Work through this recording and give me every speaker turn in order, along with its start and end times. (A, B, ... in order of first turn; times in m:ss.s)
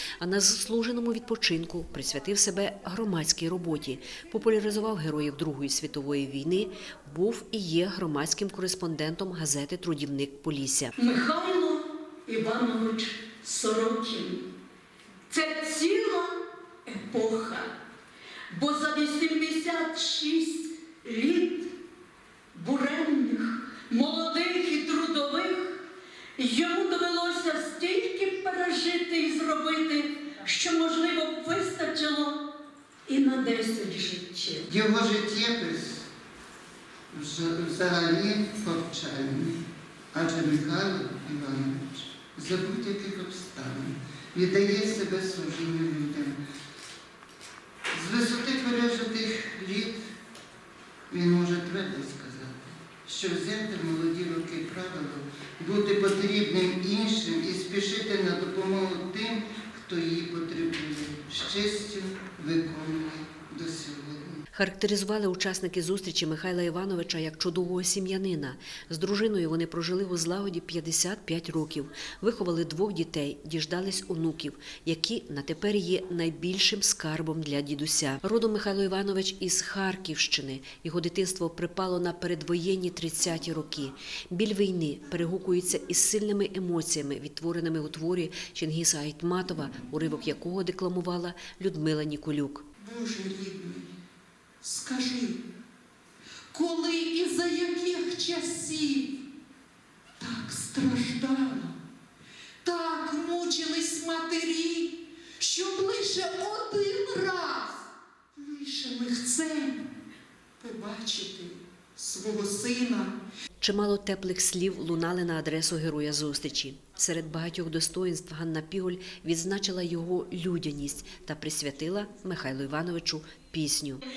0:00.2-0:11.0 A
0:11.0-0:14.4 B
0:15.3-0:17.7 B
0:18.5-0:21.7 B
0:22.5-0:25.8 B
0:26.4-0:32.4 B
0:33.1-0:34.7 B
0:34.7-0:36.1 C
0:37.1-0:39.6 C
0:40.1-0:46.4 C
0:47.9-0:50.0 C
0:51.1-1:04.4 C
1:04.5-1:32.6 A
1:32.8-1:33.9 D
1:34.6-1:35.4 D
1:36.5-1:39.1 D
1:40.2-1:41.7 D
1:42.6-1:47.8 D
1:48.4-1:49.8 D
1:50.6-1:53.1 D
1:53.6-2:04.0 A